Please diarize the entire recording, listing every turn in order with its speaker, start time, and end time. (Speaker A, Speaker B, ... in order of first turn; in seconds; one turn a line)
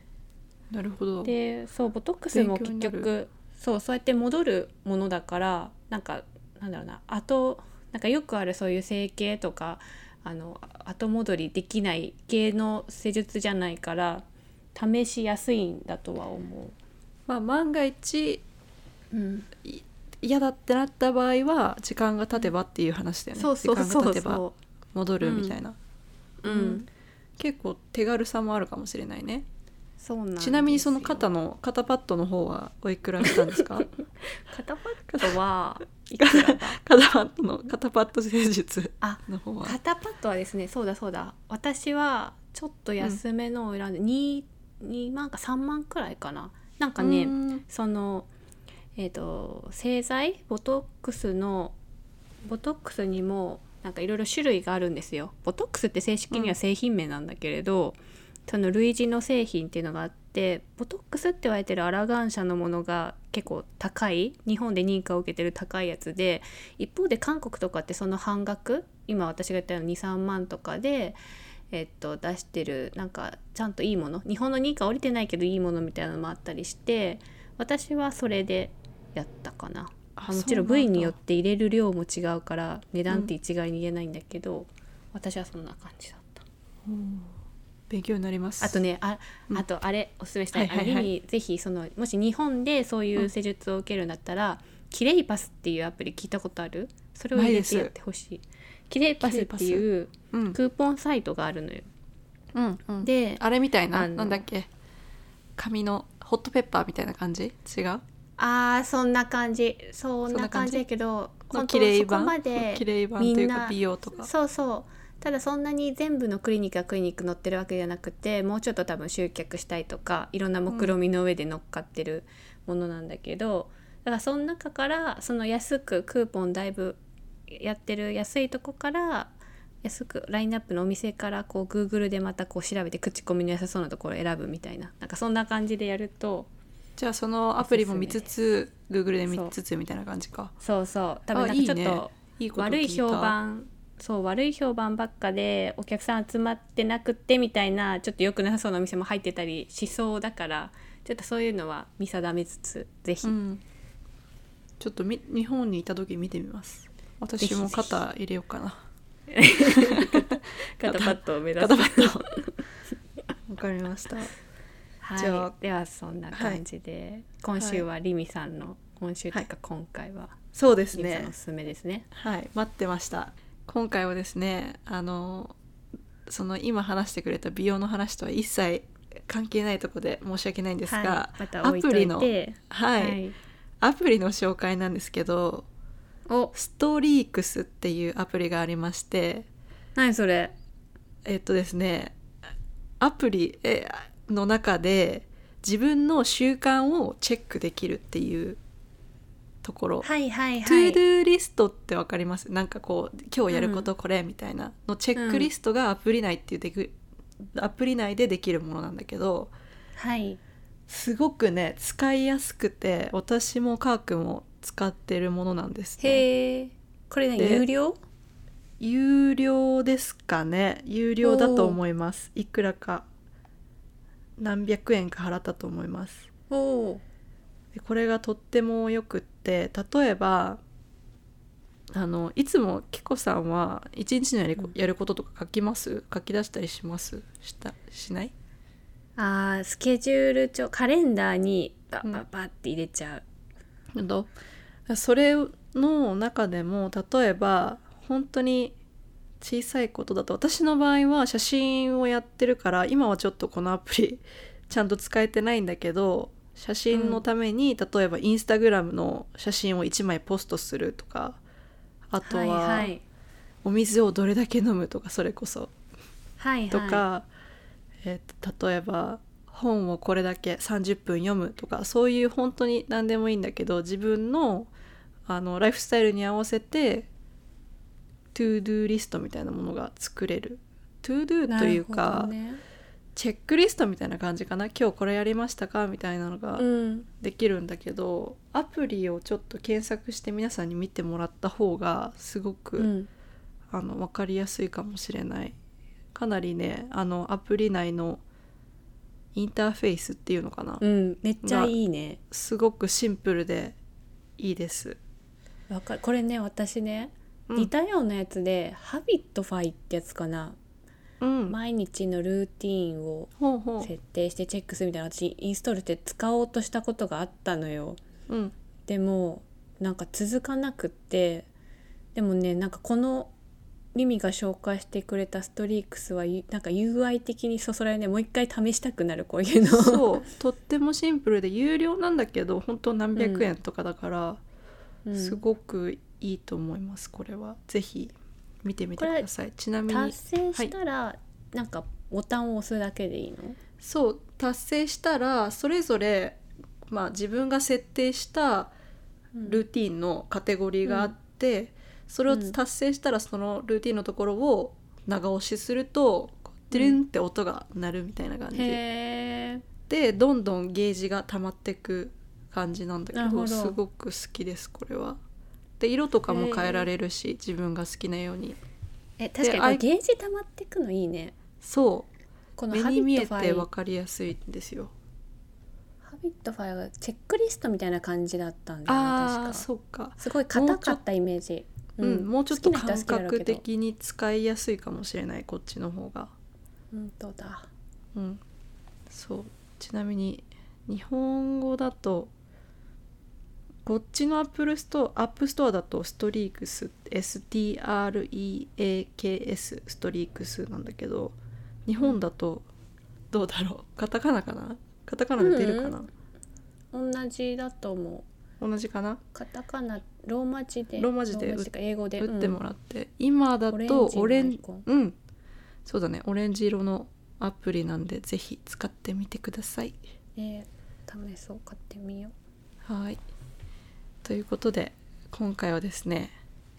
Speaker A: 0.7-1.4
Speaker B: 1.2-16.8
Speaker A: 2.3-3.1
Speaker A: 17.3-18.4
Speaker B: 19.1-19.5
Speaker A: 19.6-24.4
Speaker B: 23.4-24.6
Speaker A: 24.9-25.8
Speaker B: 25.2-25.6
Speaker B: 26.4-26.9
Speaker A: 26.4-26.8
Speaker A: 27.4-29.5
Speaker B: 30.0-31.3
Speaker A: 30.4-33.9
Speaker B: 34.5-36.8
Speaker A: 36.2-39.8
Speaker B: 39.0-48.3
Speaker A: 47.0-47.6
Speaker B: 49.0-51.8
Speaker B: 52.4-71.2
Speaker B: 71.7-86.4
Speaker A: 80.2-81.2
Speaker A: 83.1-83.3
Speaker A: 86.9-87.3
Speaker A: 87.9-88.8
Speaker B: 88.6-101.9
Speaker A: 90.5-91.1
Speaker A: 97.3-97.9
Speaker A: 99.2-100.6
Speaker A: 102.5-104.7
Speaker B: 103.0-104.5
Speaker A: 105.6-108.0
Speaker B: 108.4-127.0
Speaker A: 110.3-110.8
Speaker A: 111.5-114.3
Speaker A: 120.7-121.0
Speaker B: 127.5-136.5
Speaker A: 137.0-140.5
Speaker B: 137.6-138.3
Speaker B: 139.3-139.5
Speaker B: 140.6-153.3
Speaker A: 141.3-143.4
Speaker A: 153.2-153.6
Speaker A: 154.8-158.8
Speaker B: 157.4-158.0
Speaker B: 159.3-162.6
Speaker A: 159.7-162.3
Speaker A: 163.5-164.3
Speaker B: 165.0-170.4
Speaker A: 165.2-165.5
Speaker A: 166.3-166.6
Speaker A: 167.6-167.8
Speaker A: 170.6-171.3
Speaker B: 170.9-172.1
Speaker A: 172.1-175.6
Speaker A: 176.3-183.2
Speaker B: 180.9-183.3
Speaker A: 183.8-185.7
Speaker B: 186.3-186.5
Speaker A: 186.5-189.5
Speaker B: 190.0-190.5
Speaker A: 191.3-192.2
Speaker A: 193.0-198.6
Speaker A: 199.6-200.1
Speaker B: 200.0-201.0
Speaker A: 200.6-207.0
Speaker B: 203.5-203.9
Speaker B: 205.2-205.5
Speaker A: 207.5-209.5
Speaker B: 210.0-210.4
Speaker A: 210.9-216.2
Speaker B: 216.0-218.0
Speaker A: 217.4-217.7
Speaker A: 218.8-223.1
Speaker B: 221.2-221.8
Speaker A: 224.4-226.3
Speaker B: 226.5-227.0
Speaker A: 227.7-230.6
Speaker A: 231.9-238.3
Speaker B: 239.2-243.2
Speaker A: 243.9-244.3
Speaker A: 244.9-248.8
Speaker A: 249.4-261.4
Speaker B: 256.9-257.2
Speaker A: 262.1-262.9
Speaker B: 262.2-263.0
Speaker A: 263.6-265.7
Speaker B: 266.4-267.1
Speaker A: 266.7-267.3
Speaker A: 268.0-274.7
Speaker A: 275.3-277.1
Speaker A: 278.3-282.3
Speaker B: 281.5-282.6
Speaker A: 283.1-286.7
Speaker B: 286.6-287.1
Speaker A: 287.2-292.9
Speaker B: 292.8-293.1
Speaker A: 293.7-295.6
Speaker A: 296.1-298.2
Speaker A: 299.4-300.8
Speaker B: 300.8-302.2
Speaker A: 301.4-301.7
Speaker A: 302.3-303.8
Speaker A: 304.4-305.0
Speaker B: 305.7-310.6
Speaker A: 311.2-311.6
Speaker B: 311.5-318.0
Speaker A: 313.4-313.9
Speaker A: 318.3-318.5
Speaker B: 318.9-321.5
Speaker B: 322.1-323.3
Speaker B: 323.9-330.1
Speaker A: 329.6-334.4
Speaker B: 333.2-333.5
Speaker B: 335.1-335.4
Speaker A: 335.1-340.7
Speaker B: 339.0-339.3
Speaker B: 339.9-343.6
Speaker A: 343.8-348.7
Speaker B: 349.4-349.6
Speaker A: 349.4-358.8
Speaker B: 350.9-351.1
Speaker B: 352.3-352.6
Speaker B: 356.7-357.0
Speaker B: 358.5-359.6
Speaker A: 359.9-365.2
Speaker B: 363.1-363.8
Speaker A: 365.8-368.6
Speaker B: 366.3-366.9
Speaker B: 369.2-371.4
Speaker A: 369.4-369.8
Speaker A: 371.6-372.1
Speaker B: 372.6-373.7
Speaker A: 372.7-374.9
Speaker B: 376.1-379.7
Speaker A: 378.9-381.0
Speaker B: 380.2-383.6
Speaker A: 382.0-386.3
Speaker B: 386.9-387.7
Speaker A: 388.1-388.4
Speaker A: 389.1-392.3
Speaker A: 393.9-401.4
Speaker A: 401.9-402.7
Speaker A: 403.3-406.1
Speaker B: 405.4-406.1
Speaker B: 406.9-408.3
Speaker A: 408.6-409.2
Speaker B: 409.3-412.6
Speaker A: 411.0-415.2
Speaker B: 413.7-414.9
Speaker A: 415.9-420.0
Speaker B: 420.4-422.3
Speaker A: 422.9-423.2
Speaker A: 424.2-426.4